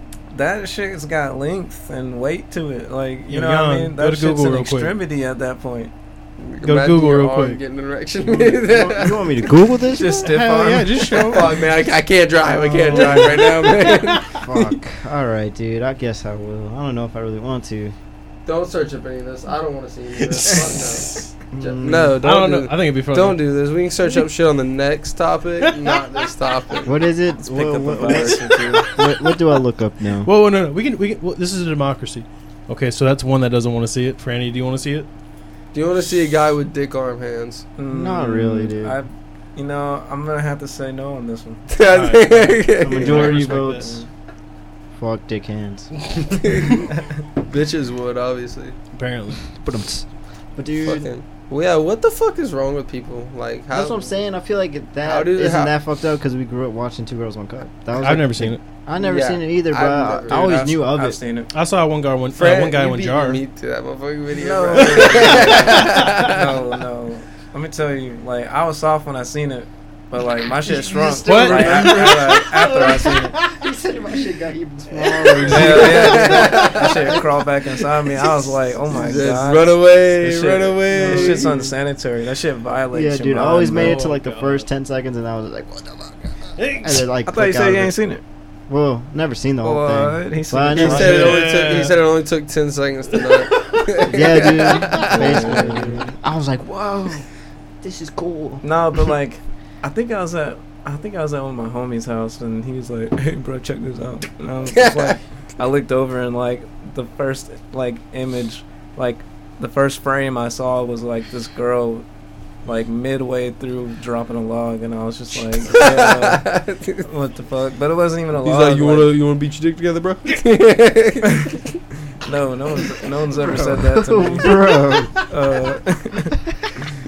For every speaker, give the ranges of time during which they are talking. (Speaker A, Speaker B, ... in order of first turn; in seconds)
Speaker A: 0.3-5.9, 9.9-11.4, 27.3-29.0, 37.8-41.6, 43.1-44.0, 60.3-61.5, 64.3-73.4, 75.4-84.0, 87.2-88.2, 89.6-91.4, 95.0-96.0, 98.6-112.0, 112.6-119.1, 121.2-121.5, 122.2-124.6, 125.2-126.3
Speaker B: 3.3-5.0, 6.6-7.6, 10.2-11.6, 12.9-14.2, 20.2-21.3, 22.2-23.4, 28.0-29.3, 30.2-35.1, 41.9-43.9, 48.9-49.4, 58.0-58.6, 61.5-63.4, 64.8-66.3, 71.2-72.4, 73.0-73.5, 75.2-75.7, 83.7-84.7, 86.5-87.0, 90.8-91.9, 93.1-95.1
Speaker C: 6.5-9.2, 11.3-14.7, 18.4-26.9, 35.7-37.6, 41.7-43.4, 46.4-46.8, 47.4-48.7, 50.8-54.1, 55.0-55.7, 59.0-60.5, 62.3-66.6, 75.4-77.2, 78.9-81.6, 90.7-95.7, 104.7-105.2, 115.7-117.0, 118.3-121.6
Speaker D: 8.6-10.3, 12.4-13.4, 14.2-17.9, 21.5-22.2, 26.8-30.3, 37.9-39.0, 42.8-43.9, 45.0-46.5, 49.6-51.0, 53.7-61.2, 70.6-77.3, 78.9-79.2, 81.0-81.7, 82.9-88.0, 88.7-91.4, 94.0-97.3, 97.8-98.6, 123.4-125.2